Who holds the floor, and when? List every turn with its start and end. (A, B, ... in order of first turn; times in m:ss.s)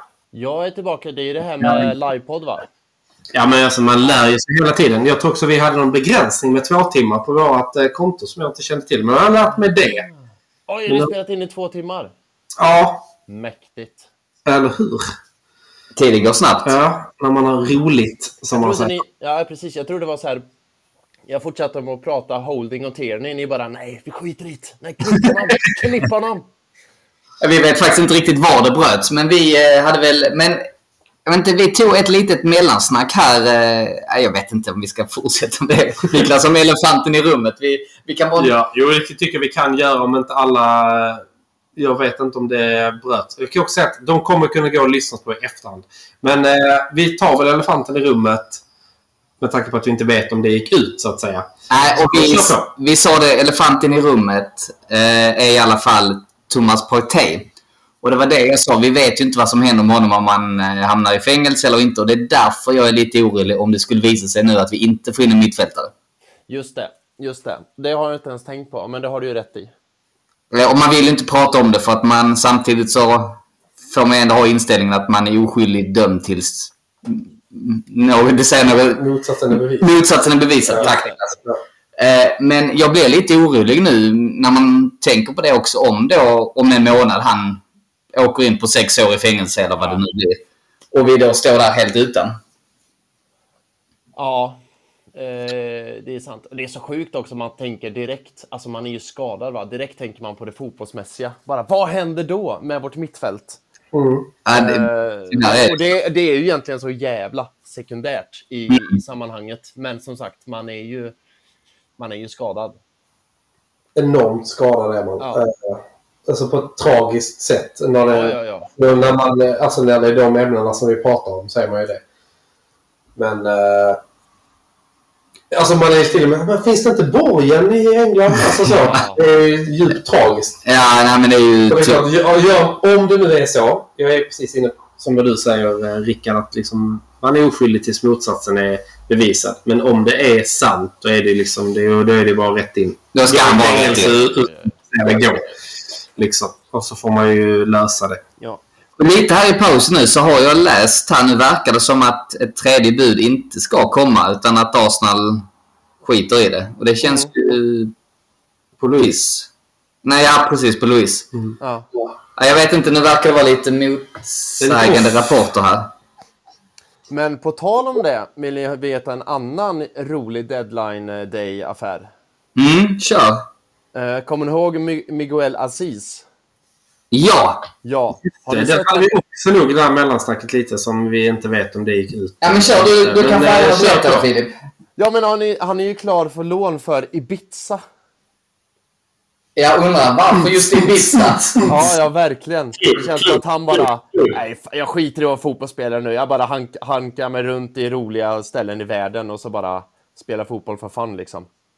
0:00.3-0:02.7 A
0:03.3-0:10.0 B
0:09.4-0:12.1 A
0:10.9-0:11.1 B
0:12.6-0:13.1 B
0:13.3-0:14.1 A
0:14.5-0:15.1 B
0:16.0-0:16.7 C
0:16.6-0:19.0 B
0:18.5-0:20.4 A
0:21.3-0:26.5 A
0:27.4-0:30.6 C
0:31.2-0:38.5 C
0:38.4-0:41.2 B
0:41.8-0:48.6 B
0:49.4-0:52.7 B
0:51.7-0:57.5 C
0:58.0-1:05.9 C
1:06.5-1:09.7 A
1:10.5-1:19.0 C
1:18.9-1:19.9 B
1:19.8-1:21.4 C
1:20.7-1:20.9 B
1:20.8-1:21.2 A
1:22.0-1:27.6 C
1:28.1-1:30.4 C
1:30.9-1:32.4 C
1:34.2-1:34.6 A
1:35.1-1:43.6 A
1:43.9-1:44.3 B
1:44.4-1:45.8 C
1:44.5-1:51.1 A
1:48.7-1:49.0 C
1:52.0-1:52.8 A
1:53.9-2:02.0 B
1:55.2-1:55.4 A
1:58.1-1:58.7 A
2:03.2-2:04.0 B
2:05.5-2:10.6 B
2:08.8-2:09.2 A
2:10.6-2:12.0 C
2:11.7-2:25.5 B
2:23.1-2:24.2 C
2:23.4-2:24.7 A
2:26.2-2:28.2 B
2:29.0-2:35.4 C
2:36.0-2:37.9 C
2:37.0-2:37.3 A
2:38.8-2:39.5 C
2:40.0-2:41.3 C
2:41.6-2:41.9 A
2:42.4-2:45.9 C
2:44.6-2:45.3 B
2:47.1-2:52.1 A
2:52.6-2:53.4 C
2:53.9-2:56.2 A
2:57.1-2:57.7 C
2:57.8-2:59.1 A
2:58.5-3:04.3 B
3:02.4-3:04.5 C
3:05.0-3:07.8 A
3:09.6-3:11.6 C
3:11.3-3:11.9 B
3:11.7-3:21.5 A
3:12.8-3:14.4 B